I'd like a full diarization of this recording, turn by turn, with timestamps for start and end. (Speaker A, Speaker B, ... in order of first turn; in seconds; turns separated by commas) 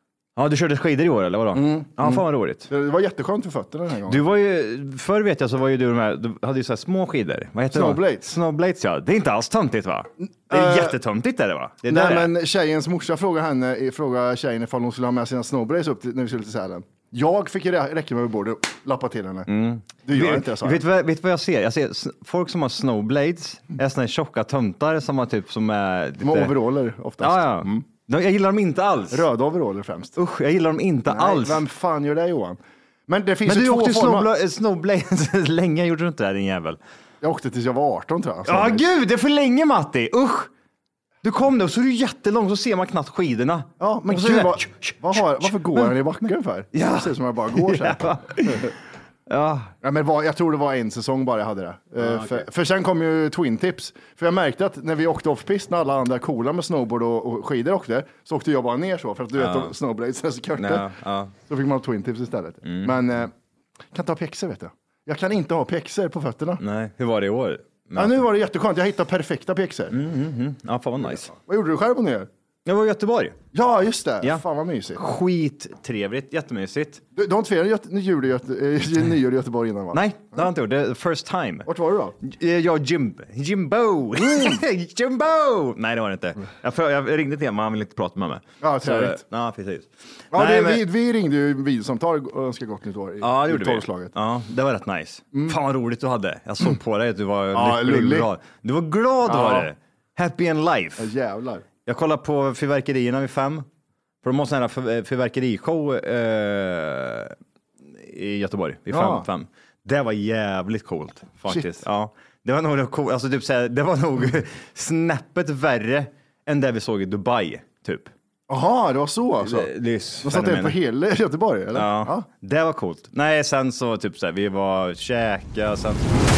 Speaker A: 0.4-2.7, Speaker B: 1.5-4.2, Speaker A: 4.1-12.3, Speaker B: 7.7-8.3, Speaker B: 10.3-11.0, Speaker B: 11.8-19.5, Speaker A: 19.5-26.5, Speaker B: 20.1-20.8, Speaker B: 26.2-27.9, Speaker A: 27.2-29.3, Speaker B: 29.1-30.1, Speaker A: 30.1-31.6, Speaker B: 31.1-34.3, Speaker A: 33.5-36.8, Speaker B: 37.2-38.9, Speaker A: 38.5-40.5, Speaker A: 41.2-46.0, Speaker B: 43.8-48.7, Speaker A: 46.7-48.7, Speaker A: 49.3-49.7, Speaker B: 49.8-60.9, Speaker A: 52.0-52.5, Speaker A: 59.4-59.7, Speaker A: 60.6-61.3, Speaker B: 61.5-63.3, Speaker A: 62.6-62.9, Speaker B: 63.9-66.6, Speaker A: 66.6-68.2, Speaker B: 68.0-70.0, Speaker A: 69.9-71.3, Speaker B: 71.2-72.3, Speaker A: 72.7-73.4, Speaker B: 73.5-75.0, Speaker A: 75.0-77.0, Speaker B: 77.2-80.4, Speaker A: 79.9-81.7, Speaker B: 81.7-82.2, Speaker A: 82.2-90.9, Speaker B: 84.2-84.6, Speaker B: 88.6-89.2, Speaker B: 90.3-94.1, Speaker A: 93.2-101.1, Speaker B: 95.3-95.6, Speaker B: 97.5-98.3, Speaker B: 99.2-99.7, Speaker B: 101.0-101.7, Speaker A: 101.8-103.7, Speaker A: 104.2-107.3, Speaker A: 107.9-118.1, Speaker B: 108.9-109.3, Speaker B: 111.5-111.8, Speaker B: 118.5-119.7, Speaker A: 119.4-120.8, Speaker B: 120.2-122.3, Speaker A: 121.7-126.1